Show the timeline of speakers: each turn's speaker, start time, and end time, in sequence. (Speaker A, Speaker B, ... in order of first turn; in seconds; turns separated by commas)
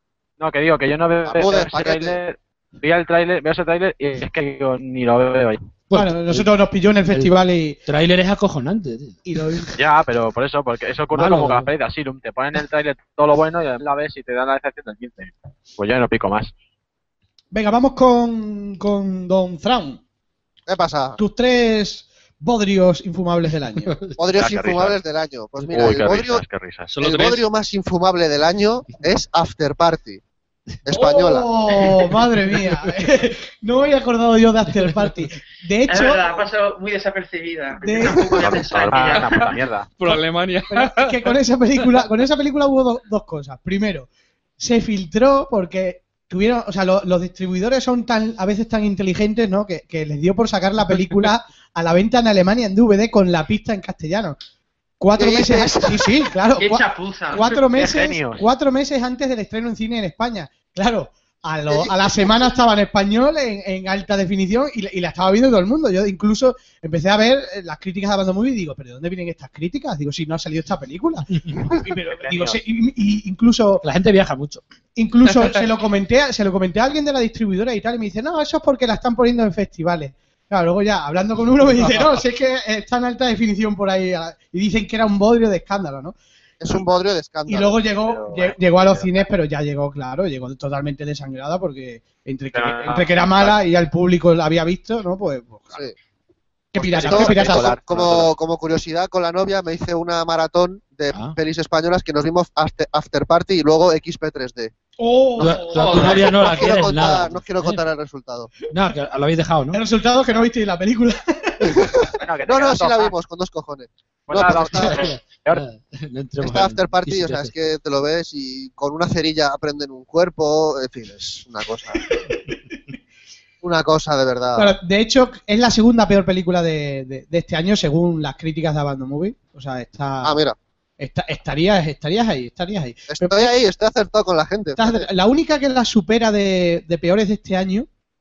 Speaker A: 0.4-5.6, Speaker B: 1.2-2.2, Speaker C: 5.9-6.5, Speaker D: 5.9-7.8, Speaker C: 7.0-7.3, Speaker C: 7.9-9.2, Speaker D: 9.2-9.8, Speaker A: 9.8-16.5, Speaker C: 11.1-11.7, Speaker D: 17.5-20.0, Speaker B: 20.7-21.2, Speaker D: 21.2-23.9, Speaker C: 23.9-24.1, Speaker B: 24.2-26.4, Speaker A: 24.3-25.0, Speaker A: 25.7-26.9, Speaker E: 26.9-27.4, Speaker B: 27.0-30.2, Speaker B: 30.8-31.5, Speaker D: 30.9-36.4, Speaker F: 35.9-39.5, Speaker D: 37.8-38.6, Speaker A: 38.4-39.9, Speaker E: 38.9-41.2, Speaker D: 40.7-44.1, Speaker D: 44.6-54.4, Speaker D: 55.0-73.8, Speaker B: 55.1-56.2, Speaker F: 56.6-57.5, Speaker A: 57.3-58.5, Speaker B: 61.7-62.1, Speaker A: 72.2-72.6, Speaker C: 73.8-74.6, Speaker D: 75.0-86.1, Speaker B: 86.6-87.8, Speaker D: 87.5-95.8, Speaker A: 88.0-89.3, Speaker A: 92.5-93.6, Speaker D: 96.7-97.8, Speaker B: 96.8-104.7, Speaker A: 96.8-98.3, Speaker D: 105.0-106.2, Speaker F: 105.4-106.3, Speaker C: 105.4-107.8, Speaker B: 105.9-108.6, Speaker C: 108.7-109.8, Speaker D: 109.7-111.8, Speaker B: 111.6-115.1, Speaker A: 112.2-113.1, Speaker A: 114.3-115.6, Speaker C: 114.5-117.5, Speaker B: 116.4-122.1, Speaker D: 122.1-122.5, Speaker B: 123.6-124.7, Speaker D: 124.5-130.4, Speaker B: 130.2-130.6, Speaker D: 131.0-133.5, Speaker B: 133.1-135.1, Speaker D: 134.8-137.9